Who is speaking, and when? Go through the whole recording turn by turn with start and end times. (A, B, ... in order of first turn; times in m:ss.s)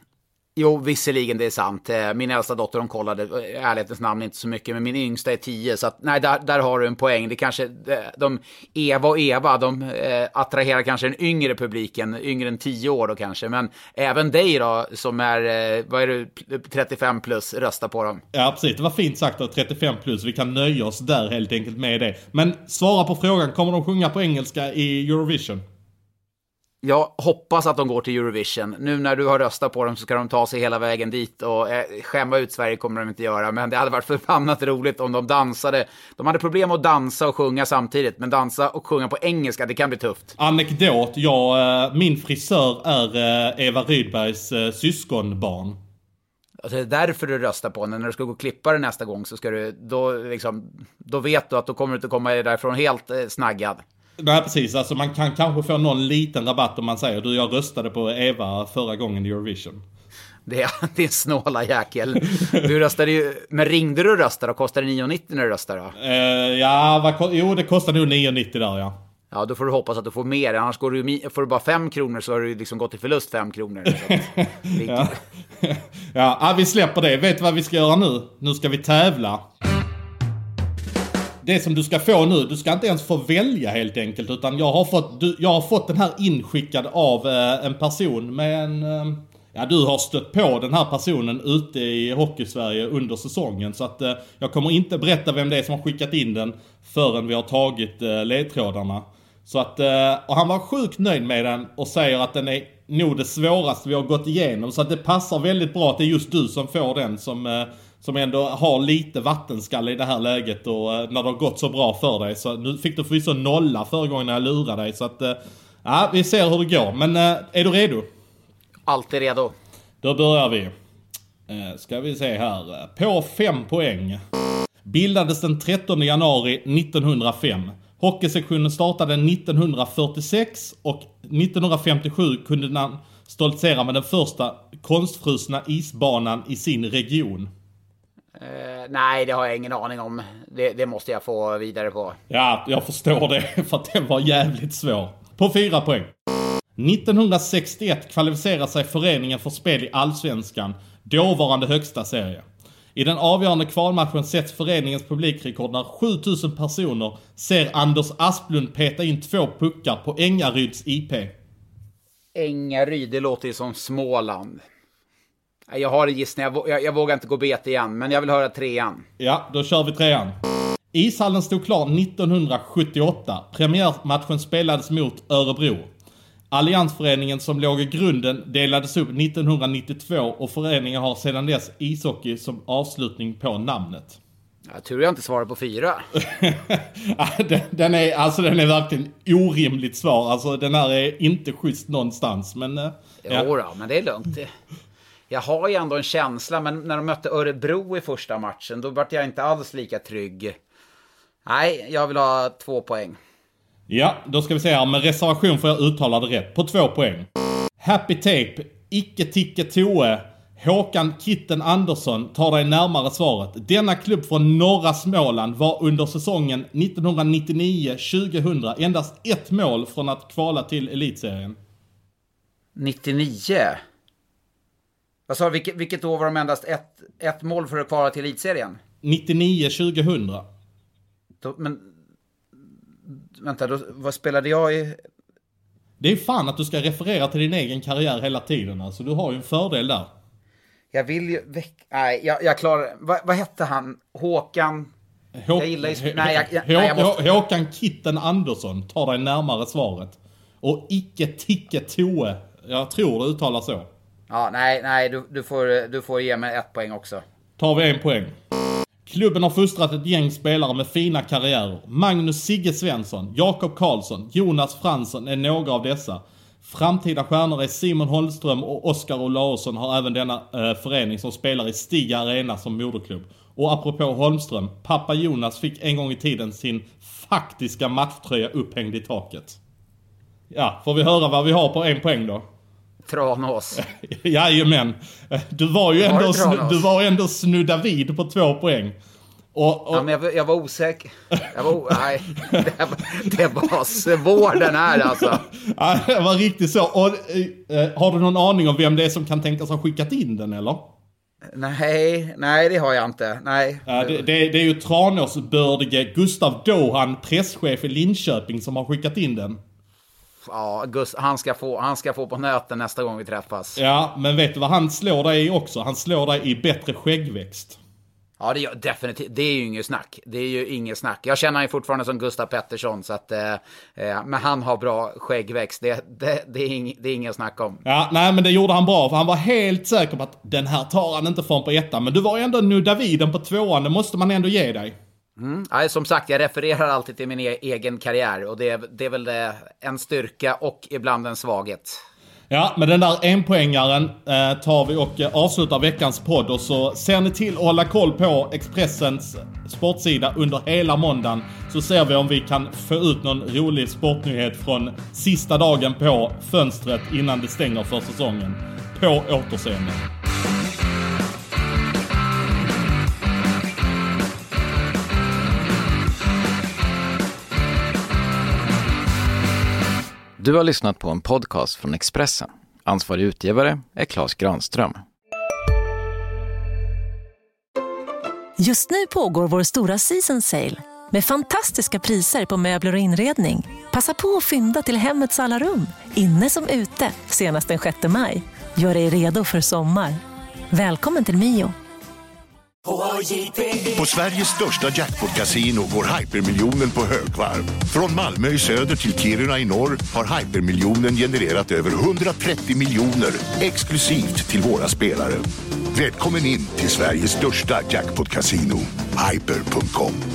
0:00.6-0:18.2 A
0:18.3-0:25.6 B
0:26.8-0:40.3 A
0:40.4-0:45.8 B
0:46.6-0:53.8 A
0:54.2-0:59.8 B
1:00.5-1:05.9 A
1:06.0-1:08.9 B
1:09.3-1:15.2 A
1:13.9-1:19.4 B
1:21.4-1:58.1 B
1:58.9-1:59.5 A
2:00.0-2:00.7 B
2:01.5-2:04.2 B
2:04.8-2:17.5 B
2:18.4-2:22.2 A
2:22.3-2:26.1 B
2:26.8-2:41.3 B
2:42.4-2:44.6 A
2:45.7-2:49.0 A
2:49.2-2:50.4 B
2:50.9-2:55.9 B
2:56.5-3:04.2 B
3:04.7-3:06.0 A
3:06.2-3:13.5 B
3:13.2-3:14.5 A
3:15.3-3:20.5 A
3:21.4-3:23.2 A
3:23.9-3:27.3 B
3:27.8-3:41.6 B
3:42.8-3:43.8 A
3:45.3-3:48.8 A
3:49.0-3:50.4 B
3:51.4-3:51.9 A
3:53.4-3:55.0 A
3:56.0-4:00.1 B
4:00.9-4:04.9 A
4:05.4-4:13.9 B
4:05.5-4:07.2 A
4:14.3-4:17.2 A
4:17.6-4:18.3 B
4:19.0-4:39.6 B
4:40.5-4:42.4 B
4:43.0-4:43.8 A
4:43.8-4:49.0 B
4:46.0-4:46.9 A
4:49.5-4:50.1 B
4:49.9-4:55.4 A
4:55.1-5:00.9 B
5:01.5-5:04.2 A
5:03.9-5:09.6 B
5:10.4-5:13.8 A
5:13.8-5:17.8 B
5:18.4-5:27.8 A
5:27.8-5:35.0 B
5:35.4-5:42.0 A
5:42.5-6:00.0 B
6:10.4-6:15.0 C
6:18.6-6:30.2 D
6:30.7-6:31.7 D
6:33.8-6:50.2 E